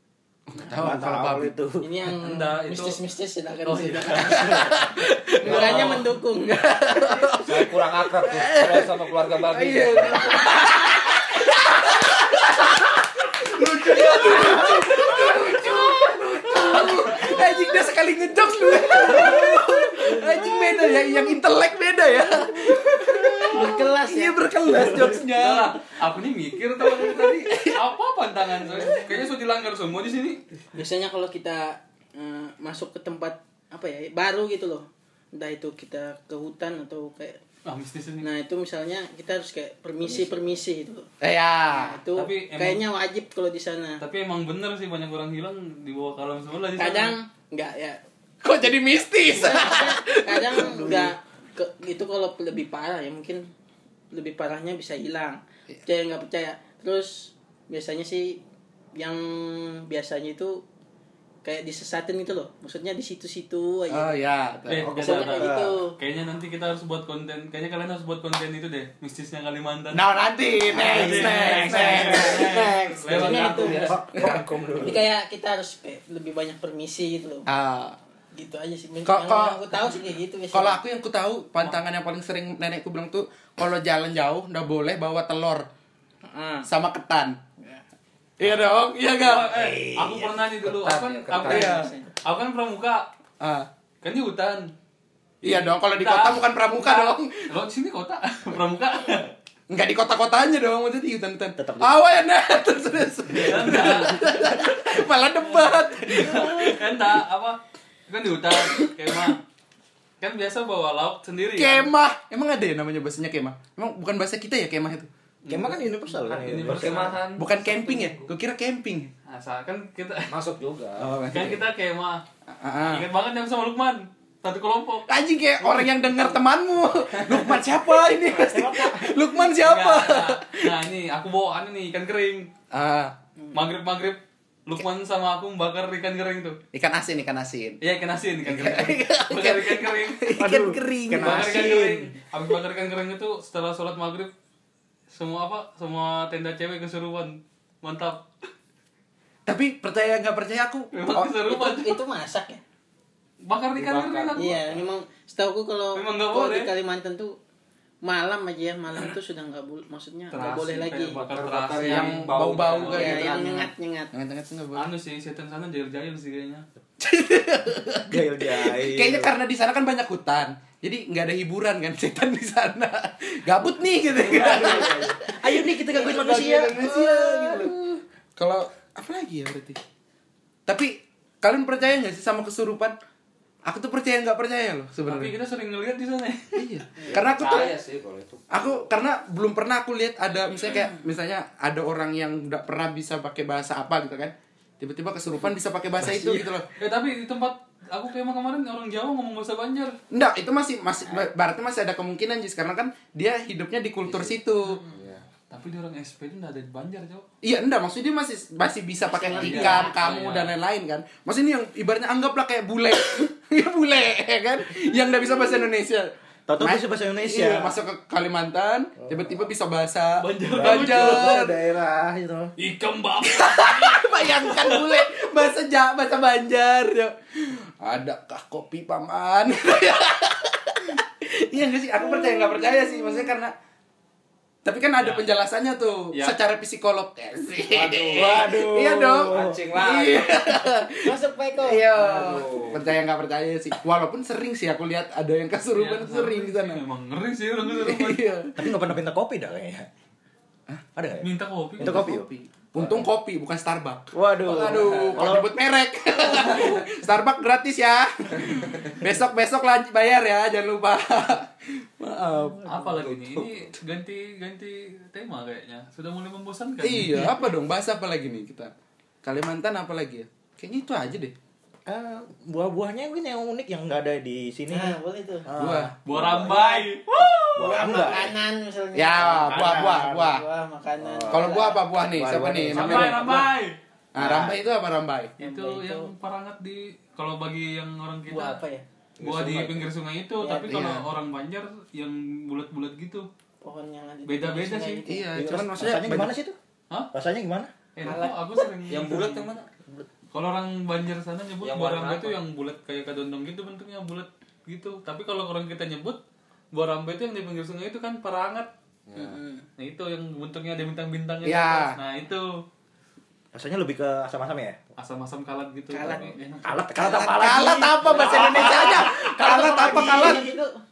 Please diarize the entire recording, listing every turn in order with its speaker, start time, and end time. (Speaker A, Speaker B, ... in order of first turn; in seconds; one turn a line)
Speaker A: 0.5-1.6
Speaker B: 0.7-1.9
Speaker C: 1.8-4.9
Speaker D: 2.2-3.0
Speaker D: 3.6-4.7
Speaker A: 4.3-25.8
Speaker C: 5.4-6.7
Speaker D: 5.4-6.1
Speaker E: 7.4-10.5
Speaker D: 13.5-15.1
Speaker C: 18.9-20.9
Speaker C: 22.4-25.1
Speaker D: 25.2-30.4
Speaker A: 26.8-27.8
Speaker C: 28.8-29.1
Speaker C: 30.7-37.4
Speaker D: 37.6-38.3
Speaker C: 38.2-41.1
Speaker A: 41.2-42.0
Speaker C: 41.7-44.0
Speaker D: 42.1-42.8
Speaker D: 44.0-47.2
Speaker C: 46.8-48.0
Speaker A: 48.4-51.1
Speaker C: 49.3-53.5
Speaker C: 54.1-58.4
Speaker C: 59.0-60.6
Speaker C: 61.4-64.2
Speaker A: 63.9-65.1
Speaker D: 64.7-70.0
Speaker B: 64.7-65.8
Speaker C: 65.0-66.0
Speaker A: 69.9-72.7
Speaker B: 70.7-75.0
Speaker D: 70.7-74.0
Speaker C: 73.0-73.9
Speaker E: 73.1-74.5
Speaker A: 74.1-74.5
Speaker C: 74.8-77.5
Speaker A: 77.5-78.0
Speaker C: 78.3-80.8
Speaker A: 79.0-79.8
Speaker A: 80.5-85.7
Speaker C: 86.2-86.7
Speaker A: 86.7-87.4
Speaker A: 88.4-89.5
Speaker D: 89.2-93.1
Speaker B: 89.5-90.6
Speaker E: 90.6-91.8
Speaker A: 91.4-91.9
Speaker C: 91.5-92.1
Speaker A: 93.4-93.7
Speaker D: 94.0-94.7
Speaker D: 95.4-99.3
Speaker A: 95.4-97.5
Speaker A: 99.7-107.0
Speaker B: 101.6-102.1
Speaker D: 103.3-104.4
Speaker D: 105.4-109.4
Speaker D: 110.2-111.9
Speaker A: 111.6-115.1
Speaker D: 115.5-117.2
Speaker B: 115.5-117.2
Speaker E: 116.3-118.3
Speaker A: 117.4-119.1
Speaker D: 119.3-120.3
Speaker E: 120.3-121.6
Speaker B: 121.0-121.5
Speaker D: 121.3-122.2
Speaker A: 122.5-123.1
Speaker D: 122.9-125.1
Speaker A: 125.1-130.8
Speaker B: 128.2-129.2
Speaker D: 129.5-132.5
Speaker A: 132.7-133.2
Speaker D: 133.5-136.6
Speaker A: 136.7-137.8
Speaker D: 137.8-140.4
Speaker A: 138.4-141.6
Speaker B: 140.3-142.1
Speaker D: 141.2-144.3
Speaker D: 145.1-148.3
Speaker A: 149.5-151.3
Speaker D: 150.9-152.0
Speaker C: 151.4-152.6
Speaker D: 153.4-154.7
Speaker E: 153.8-154.9
Speaker C: 154.4-157.4
Speaker D: 155.9-156.7
Speaker C: 158.0-161.2
Speaker D: 160.3-163.3
Speaker E: 161.2-163.5
Speaker A: 161.8-164.9
Speaker C: 162.9-164.1
Speaker D: 164.8-166.7
Speaker A: 167.0-177.8
Speaker B: 168.1-169.4
Speaker B: 174.3-177.7
Speaker C: 174.6-174.8
Speaker C: 175.9-176.2
Speaker A: 178.4-179.8
Speaker A: 180.7-183.0
Speaker A: 183.7-185.3
Speaker D: 185.1-186.7
Speaker A: 186.6-187.8
Speaker C: 187.0-187.2
Speaker B: 187.1-187.4
Speaker E: 187.1-188.9
Speaker A: 188.5-196.7
Speaker D: 196.0-200.0
Speaker A: 200.1-204.8
Speaker E: 204.1-205.2
Speaker D: 205.5-207.3
Speaker A: 207.4-221.6
Speaker C: 209.1-209.9
Speaker D: 209.4-210.5
Speaker B: 216.5-217.7
Speaker D: 220.2-221.4
Speaker B: 220.5-222.6
Speaker D: 222.6-225.0
Speaker A: 223.2-233.5
Speaker A: 234.6-246.8
Speaker D: 235.0-235.3
Speaker D: 236.1-236.4
Speaker E: 237.7-238.6
Speaker B: 238.1-239.7
Speaker E: 239.2-240.5
Speaker C: 241.0-241.9
Speaker E: 241.8-242.9
Speaker D: 245.7-248.3
Speaker A: 247.7-248.8
Speaker B: 248.6-249.9
Speaker B: 251.0-253.1
Speaker D: 251.2-252.2
Speaker A: 251.8-262.6
Speaker B: 254.1-255.5
Speaker D: 262.6-267.3
Speaker E: 262.8-263.7
Speaker A: 266.8-268.7
Speaker A: 269.2-271.3
Speaker B: 271.9-276.8
Speaker C: 274.7-275.5
Speaker A: 275.6-275.9
Speaker D: 276.1-278.2
Speaker C: 277.1-281.9
Speaker B: 277.6-278.3
Speaker A: 278.9-280.4
Speaker B: 279.2-280.2
Speaker B: 281.0-281.5
Speaker A: 281.3-283.3
Speaker B: 282.1-283.6
Speaker D: 282.7-283.8
Speaker A: 284.1-285.4
Speaker B: 284.2-284.6
Speaker D: 285.4-288.6
Speaker C: 285.4-286.1
Speaker C: 288.3-288.9
Speaker D: 289.2-293.3
Speaker E: 289.2-289.7
Speaker B: 289.3-289.7
Speaker C: 290.4-290.9
Speaker A: 290.7-291.1
Speaker C: 293.6-295.3
Speaker D: 294.3-295.0
Speaker A: 295.1-296.4
Speaker B: 295.4-296.6
Speaker B: 297.1-297.7
Speaker D: 298.0-299.4
Speaker C: 298.0-299.2
Speaker E: 298.9-299.7
Speaker D: 300.3-306.2
Speaker E: 301.6-302.4
Speaker D: 306.7-308.7
Speaker E: 309.1-309.4
Speaker C: 309.1-309.6
Speaker D: 309.8-312.5
Speaker A: 311.4-312.0
Speaker B: 313.5-314.8
Speaker D: 315.0-316.6
Speaker C: 315.9-316.6
Speaker B: 316.6-320.4
Speaker A: 316.9-320.5
Speaker C: 318.0-320.8